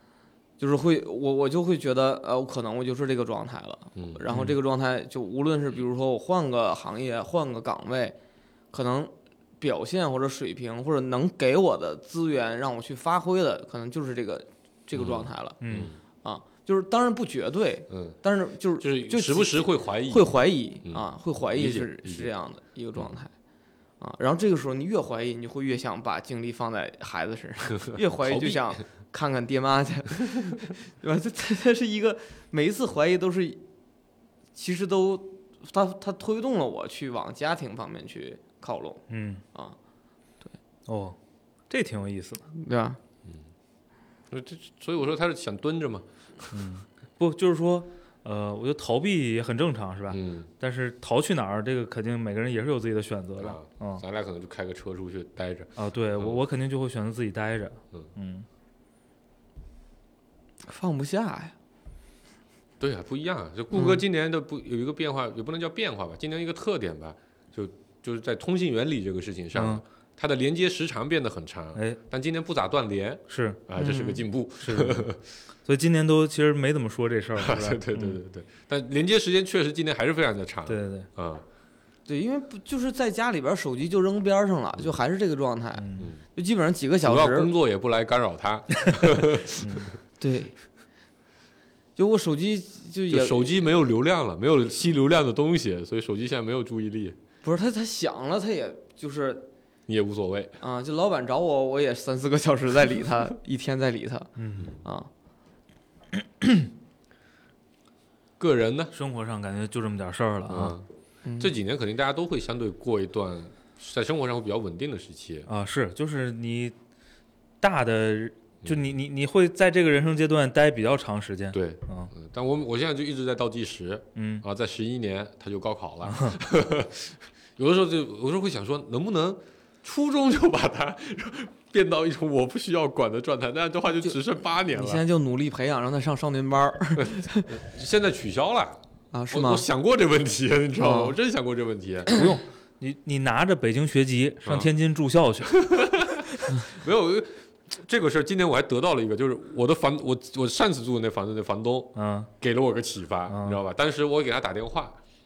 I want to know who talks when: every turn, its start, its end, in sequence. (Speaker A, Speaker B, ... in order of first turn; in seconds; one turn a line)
Speaker A: 0.6-8.2
Speaker B: 4.0-4.2
Speaker C: 4.3-4.6
Speaker A: 8.7-15.6
Speaker B: 14.9-16.0
Speaker C: 15.6-15.9
Speaker A: 16.2-23.3
Speaker B: 17.9-18.2
Speaker B: 18.8-20.3
Speaker B: 20.9-22.3
Speaker A: 24.0-33.6
Speaker B: 28.1-28.8
Speaker A: 34.5-39.0
Speaker C: 39.1-39.4
Speaker C: 40.9-41.2
Speaker C: 41.7-42.5
Speaker A: 42.5-43.0
Speaker B: 44.3-46.5
Speaker C: 46.5-54.0
Speaker B: 50.1-50.5
Speaker B: 53.4-56.4
Speaker C: 55.8-58.5
Speaker A: 60.6-61.5
Speaker B: 62.8-75.2
Speaker A: 63.7-64.0
Speaker C: 69.5-69.8
Speaker C: 73.3-73.6
Speaker A: 73.8-74.2
Speaker C: 74.6-75.1
Speaker C: 75.7-78.2
Speaker B: 77.4-81.4
Speaker C: 80.7-81.1
Speaker A: 82.1-87.5
Speaker C: 85.8-86.1
Speaker B: 86.0-86.2
Speaker B: 87.0-89.9
Speaker C: 89.6-89.9
Speaker A: 90.2-90.5
Speaker A: 92.0-93.6
Speaker B: 93.1-97.2
Speaker A: 97.4-99.5
Speaker B: 99.9-100.6
Speaker A: 100.6-104.3
Speaker C: 104.4-104.7
Speaker A: 104.8-105.1
Speaker C: 106.4-106.7
Speaker B: 108.4-108.9
Speaker C: 108.9-110.8
Speaker B: 110.5-110.9
Speaker A: 111.2-111.5
Speaker B: 111.4-115.5
Speaker C: 115.5-116.8
Speaker C: 117.6-122.1
Speaker B: 121.5-135.0
Speaker C: 124.2-124.5
Speaker C: 126.1-126.4
Speaker A: 134.0-137.5
Speaker B: 137.0-138.8
Speaker A: 139.1-139.7
Speaker B: 139.3-142.2
Speaker A: 140.8-141.2
Speaker C: 142.1-145.7
Speaker B: 145.5-155.0
Speaker C: 152.0-152.3
Speaker C: 153.3-153.6